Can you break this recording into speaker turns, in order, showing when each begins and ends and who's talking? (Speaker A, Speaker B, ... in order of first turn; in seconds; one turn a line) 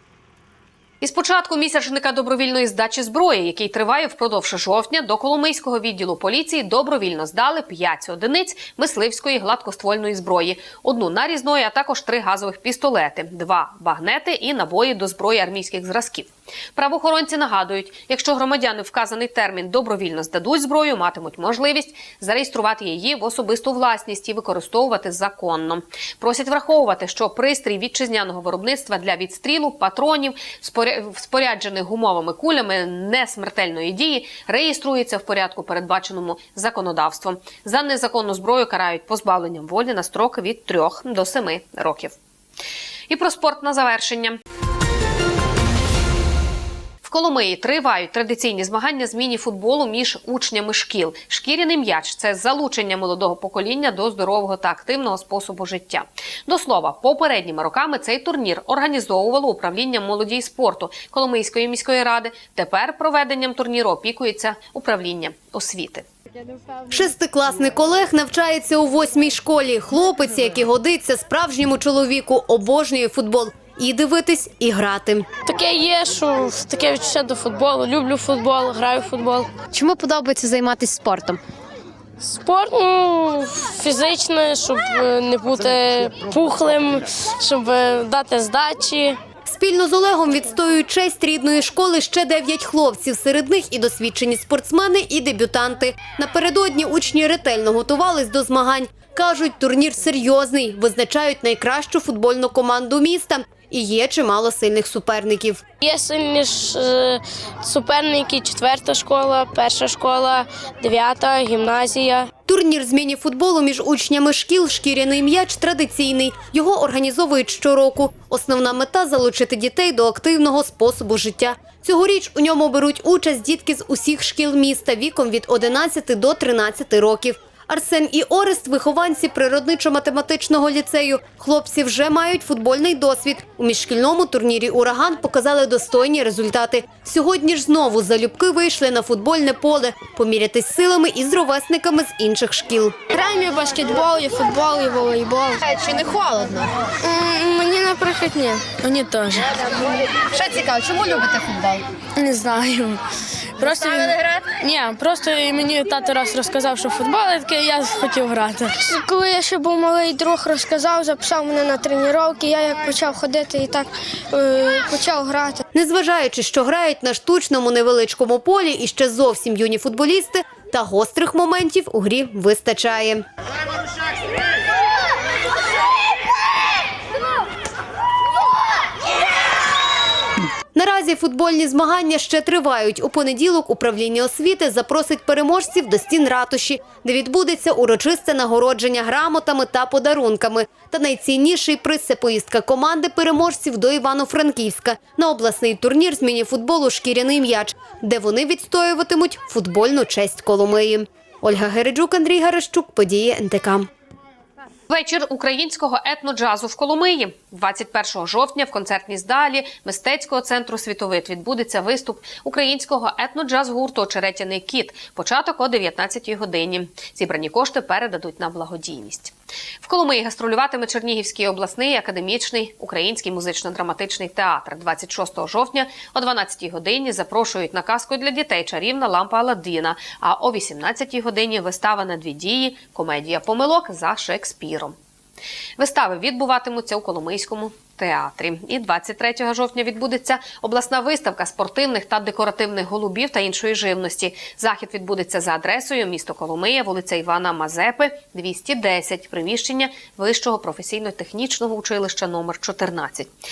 Speaker A: 1.0-42.1
Speaker A: 43.1-44.4
Speaker A: 47.0-66.0
Speaker B: 66.9-75.3
Speaker C: 75.5-79.5
Speaker B: 79.7-81.4
Speaker C: 82.2-89.2
Speaker B: 89.5-105.6
Speaker C: 105.8-112.3
Speaker B: 112.5-142.9
Speaker C: 143.1-145.6
Speaker B: 145.6-146.7
Speaker C: 147.0-149.6
Speaker B: 150.3-151.8
Speaker C: 152.2-153.0
Speaker C: 153.6-165.6
Speaker B: 165.7-173.2
Speaker B: 180.7-203.9
Speaker A: 204.9-234.9
Speaker A: 235.8-253.3